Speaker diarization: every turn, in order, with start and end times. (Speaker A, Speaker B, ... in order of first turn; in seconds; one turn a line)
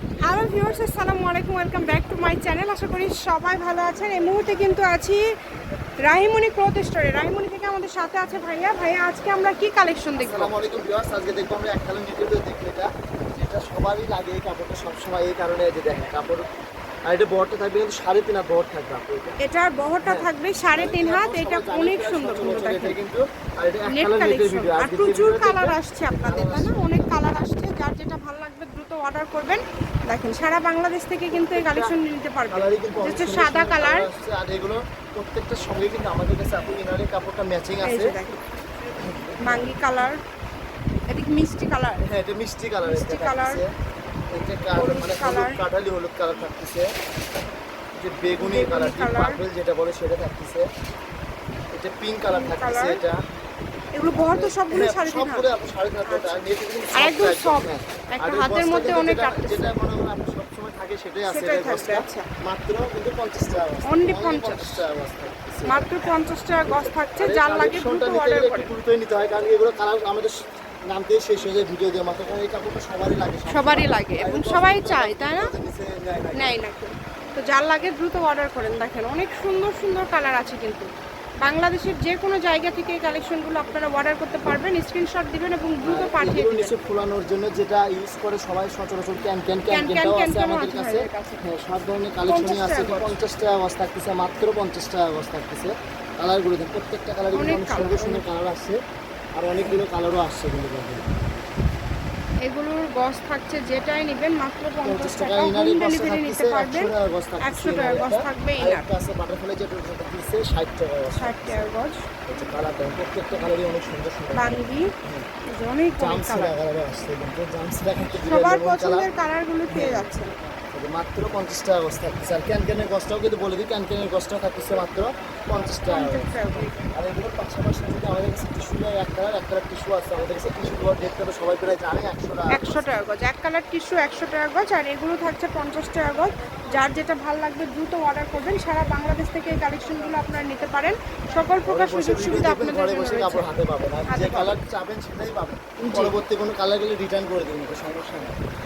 Speaker A: 0.2-5.3
Speaker A: 6.0-10.5
Speaker B: 10.2-16.4
Speaker B: 17.1-19.4
Speaker A: 19.4-23.0
Speaker B: 20.0-27.1
Speaker A: 23.9-34.1
Speaker B: 31.3-31.9
Speaker B: 32.5-38.1
Speaker A: 37.8-38.4
Speaker B: 39.1-39.8
Speaker A: 39.4-40.2
Speaker A: 41.1-42.0
Speaker B: 42.0-43.7
Speaker A: 42.8-43.6
Speaker B: 44.3-46.9
Speaker A: 44.8-45.6
Speaker B: 48.0-50.6
Speaker A: 48.4-49.4
Speaker B: 51.7-53.2
Speaker A: 52.3-53.0
Speaker A: 53.9-55.5
Speaker B: 54.1-65.9
Speaker A: 56.1-56.4
Speaker A: 56.9-59.7
Speaker A: 61.3-62.3
Speaker A: 63.9-64.8
Speaker A: 65.7-68.7
Speaker B: 66.7-70.3
Speaker B: 70.9-76.6
Speaker A: 73.5-75.5
Speaker A: 76.3-80.9
Speaker A: 81.4-86.7
Speaker B: 85.8-98.8
Speaker A: 89.7-91.4
Speaker A: 92.3-93.2
Speaker A: 97.3-98.2
Speaker B: 99.4-101.0
Speaker A: 102.4-108.9
Speaker B: 104.8-111.7
Speaker A: 111.1-112.0
Speaker B: 112.3-115.2
Speaker A: 114.3-114.9
Speaker A: 115.5-116.5
Speaker B: 116.0-119.1
Speaker A: 118.2-120.3
Speaker B: 119.7-120.1
Speaker B: 120.7-126.3
Speaker A: 125.9-126.7
Speaker B: 126.9-133.0
Speaker A: 132.5-143.5
Speaker B: 141.7-148.3
Speaker A: 144.1-144.5
Speaker A: 145.8-146.1